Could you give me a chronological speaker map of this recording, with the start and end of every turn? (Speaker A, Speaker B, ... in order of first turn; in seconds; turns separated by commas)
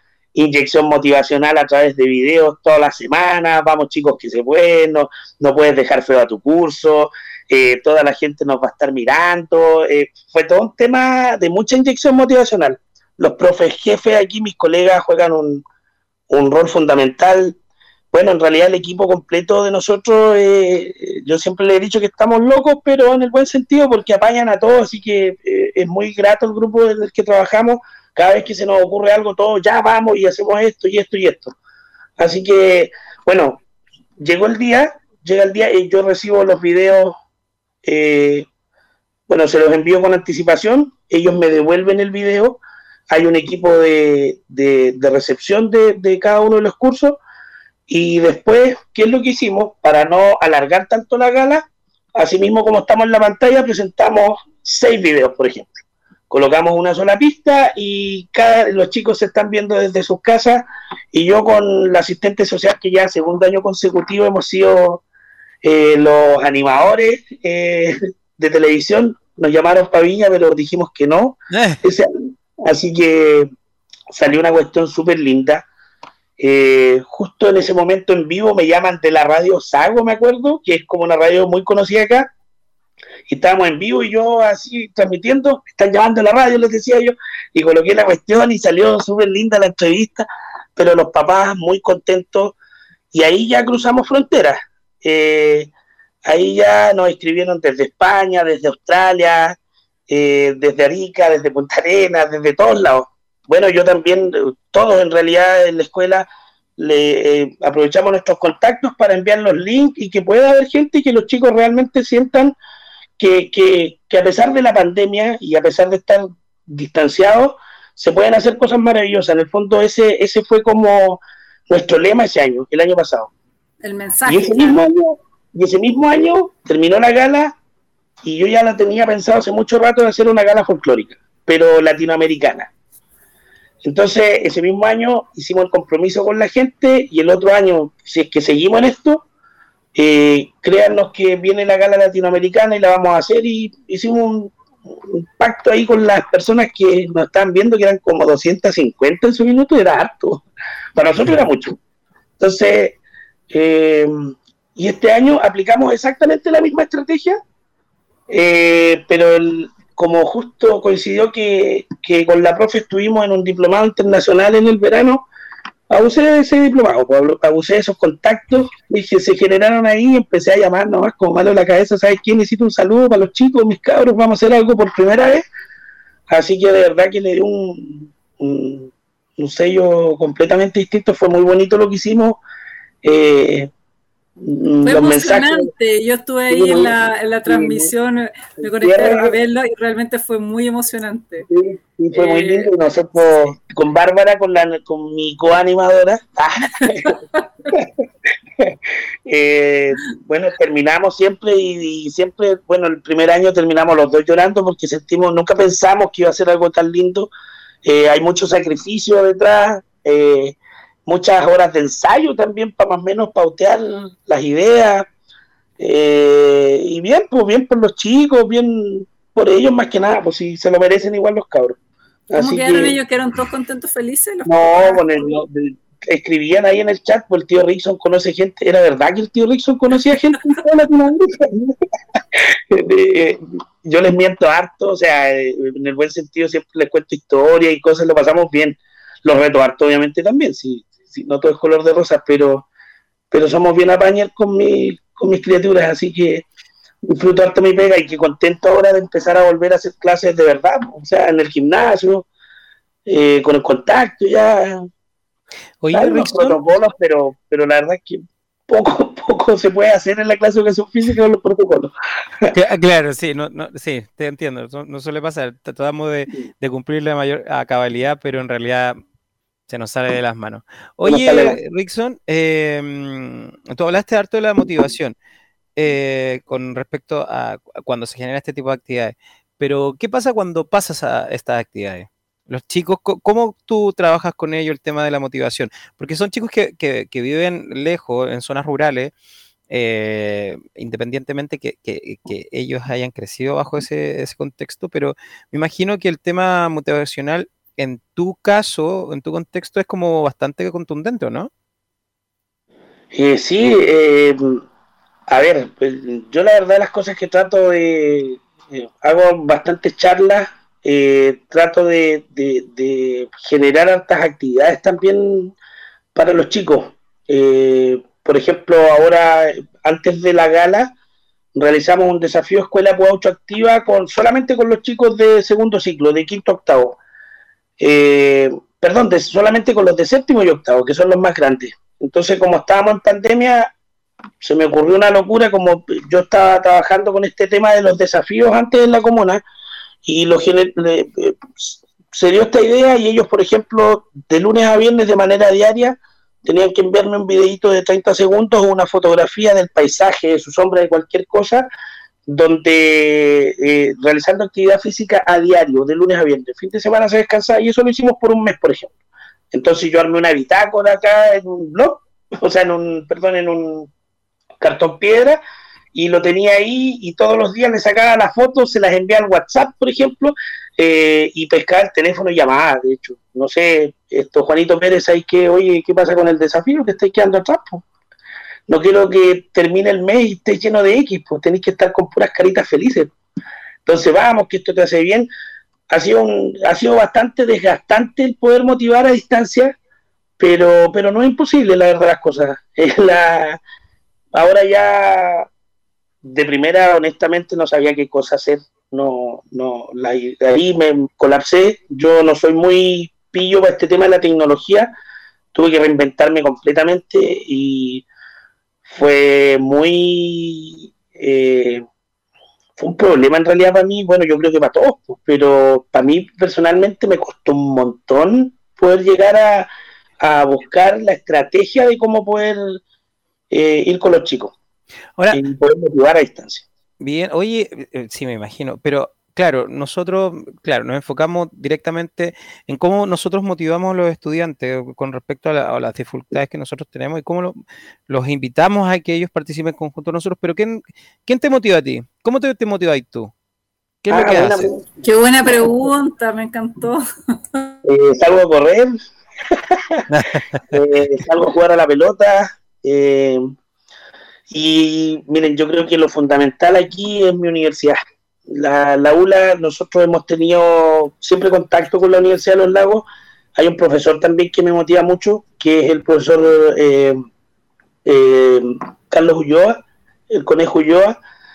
Speaker A: 0.3-15.6, Speaker A: 16.3-17.6, Speaker A: 18.1-31.6, Speaker A: 32.2-33.6, Speaker A: 34.2-37.2, Speaker A: 37.8-38.5, Speaker A: 39.3-47.2, Speaker A: 47.9-55.8, Speaker A: 56.3-65.0, Speaker A: 65.6-73.5, Speaker B: 71.5-71.8, Speaker A: 74.1-75.6, Speaker A: 76.4-82.3, Speaker A: 83.3-92.5, Speaker A: 93.1-95.7, Speaker A: 96.3-99.6, Speaker A: 100.1-106.3, Speaker A: 106.8-112.5, Speaker A: 113.2-123.3, Speaker C: 123.8-124.8, Speaker A: 124.3-127.5, Speaker A: 128.2-132.7, Speaker A: 133.8-139.2, Speaker A: 139.9-150.4, Speaker A: 151.0-151.8, Speaker A: 152.4-153.0, Speaker A: 153.5-157.4, Speaker A: 158.3-165.2, Speaker A: 165.9-175.4, Speaker A: 176.3-182.4, Speaker A: 183.0-183.7, Speaker A: 184.4-185.7, Speaker C: 184.8-191.5, Speaker A: 186.5-186.9, Speaker A: 187.5-187.9, Speaker A: 188.6-189.3, Speaker A: 191.5-197.1, Speaker C: 192.1-193.5, Speaker C: 196.8-197.7, Speaker A: 197.7-207.3, Speaker A: 207.8-210.6, Speaker A: 211.1-215.1, Speaker A: 215.8-221.8, Speaker A: 222.3-223.0, Speaker C: 222.4-225.4, Speaker A: 224.5-231.8, Speaker A: 232.3-242.7, Speaker A: 243.3-246.5, Speaker A: 247.1-252.3, Speaker A: 253.1-254.9, Speaker B: 255.8-256.6, Speaker A: 255.9-262.5, Speaker B: 262.5-269.0, Speaker B: 269.7-275.1, Speaker A: 271.1-271.6, Speaker B: 275.8-289.1, Speaker B: 289.7-301.5, Speaker A: 303.1-304.6, Speaker A: 305.3-315.6, Speaker A: 316.1-320.9, Speaker A: 321.6-327.0, Speaker A: 327.8-333.7, Speaker A: 334.4-339.4, Speaker A: 340.1-351.7, Speaker A: 352.3-358.9, Speaker A: 359.5-363.9, Speaker A: 364.6-365.4, Speaker A: 365.9-377.9, Speaker A: 378.7-383.1, Speaker A: 383.9-385.3, Speaker A: 385.9-389.8, Speaker A: 390.4-393.6, Speaker A: 394.3-395.5, Speaker A: 396.2-404.9, Speaker A: 405.5-408.1, Speaker A: 408.9-411.8, Speaker A: 412.8-419.7, Speaker A: 420.2-422.8, Speaker A: 423.5-424.5, Speaker A: 425.3-426.6, Speaker B: 427.0-443.3, Speaker B: 444.0-444.7, Speaker A: 444.1-444.9, Speaker C: 445.0-447.8, Speaker A: 447.9-448.9, Speaker A: 449.5-450.1, Speaker B: 450.1-450.8, Speaker A: 450.7-453.5, Speaker A: 454.5-463.0, Speaker A: 463.6-467.2, Speaker A: 468.1-469.8, Speaker A: 470.3-471.2